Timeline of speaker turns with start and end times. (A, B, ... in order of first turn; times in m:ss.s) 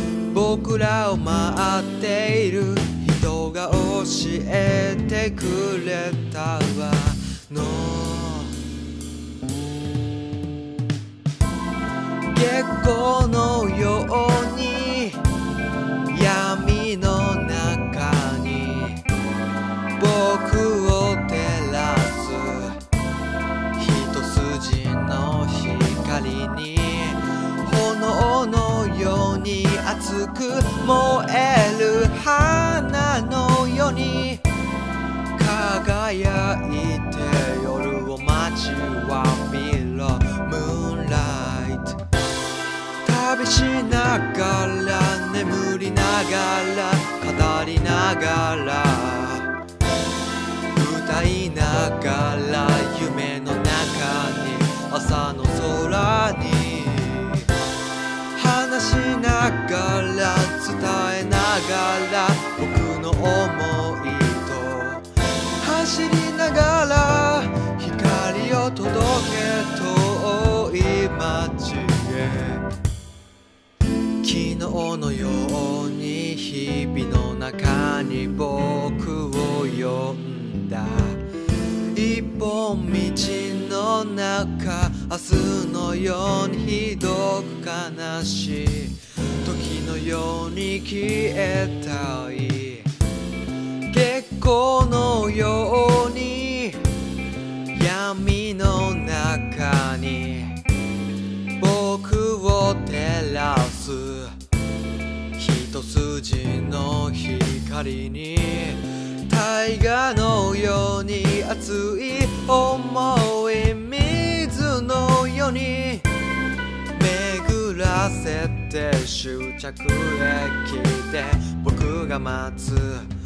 0:00.3-0:08.6 A
0:12.3-0:15.2 A
0:16.1-0:19.0 A
0:20.0-0:22.8 A
0:23.8-0:34.4 A
0:35.4-0:42.0 A
0:43.0-0:49.5 A
0:50.7-0:57.5 A
0:58.4-1:05.1 A
1:05.6-1:12.6 A
1:14.2-1:21.2 A
1:21.9-1:32.9 A
1:33.9-1:36.8 A
1:37.7-1:40.6 A
1:41.6-1:44.4 A
1:45.4-1:56.1 A
1:56.9-2:03.1 A